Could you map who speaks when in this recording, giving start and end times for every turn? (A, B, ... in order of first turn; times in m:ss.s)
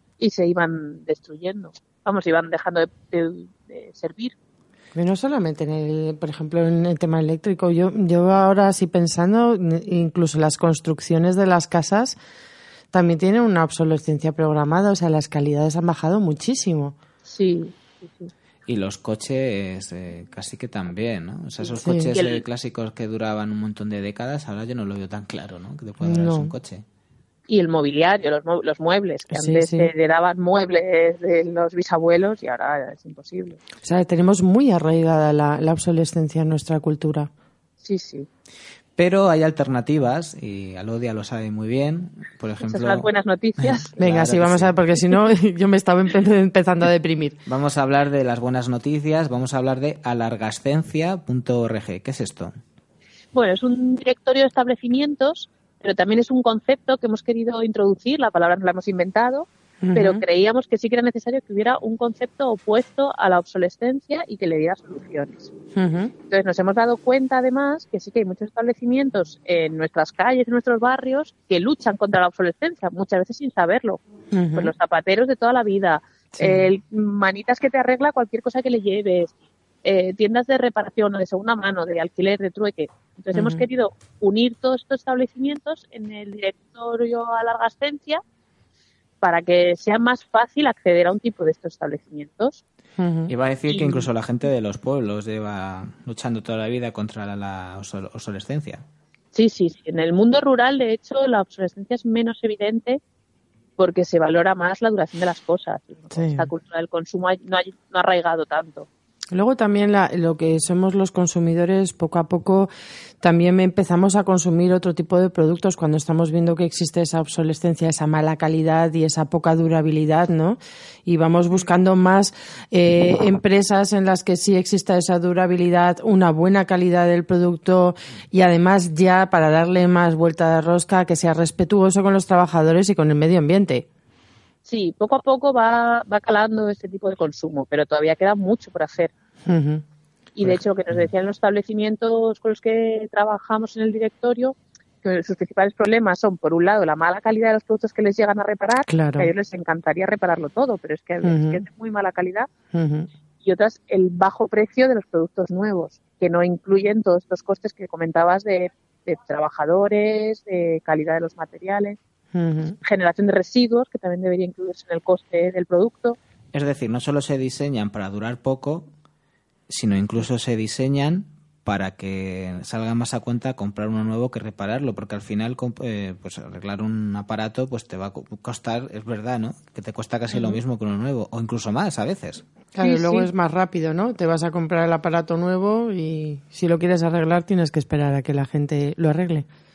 0:00.2-0:04.3 A
0:04.9-0:12.2 B
0:12.9-0:17.0 B
0:17.2-0:18.3 A
0:18.7-0:26.8 C
0:21.8-0:22.1 B
0:22.1-0:22.4 A
0:26.0-0:26.5 B
0:27.5-0:33.6 A
0:29.3-0:29.9 B
0:33.8-0:37.3 B
0:37.8-0:38.3 A
0:39.0-0:43.1 C
0:42.6-0:43.9 A
0:43.6-0:44.8 C
0:44.0-0:47.4 B
0:47.4-0:52.5 C
0:53.3-1:05.5 A
0:59.8-1:00.2 B
1:05.8-1:06.1 B
1:06.3-1:14.0 A
1:14.3-1:14.7 B
1:14.5-1:19.3 A
1:16.4-1:16.7 B
1:19.8-1:28.2 A
1:23.3-1:23.6 B
1:29.2-1:32.6 A
1:33.0-1:33.3 B
1:33.3-1:38.8 C
1:39.3-1:43.0 A
1:43.8-1:48.9 A
1:46.1-1:46.5 B
1:49.3-1:52.7 B
1:53.2-2:13.9 B
2:14.6-2:19.1 A
2:19.4-2:19.8 B
2:20.4-2:32.5 A
2:28.9-2:29.3 B
2:31.2-2:31.6 B
2:32.7-2:33.1 B
2:33.4-2:42.0 A
2:42.3-2:42.8 B
2:42.8-2:46.2 A
2:46.5-2:48.9 C
2:49.7-3:02.4 C
3:02.8-3:09.5 B
3:02.8-3:03.3 A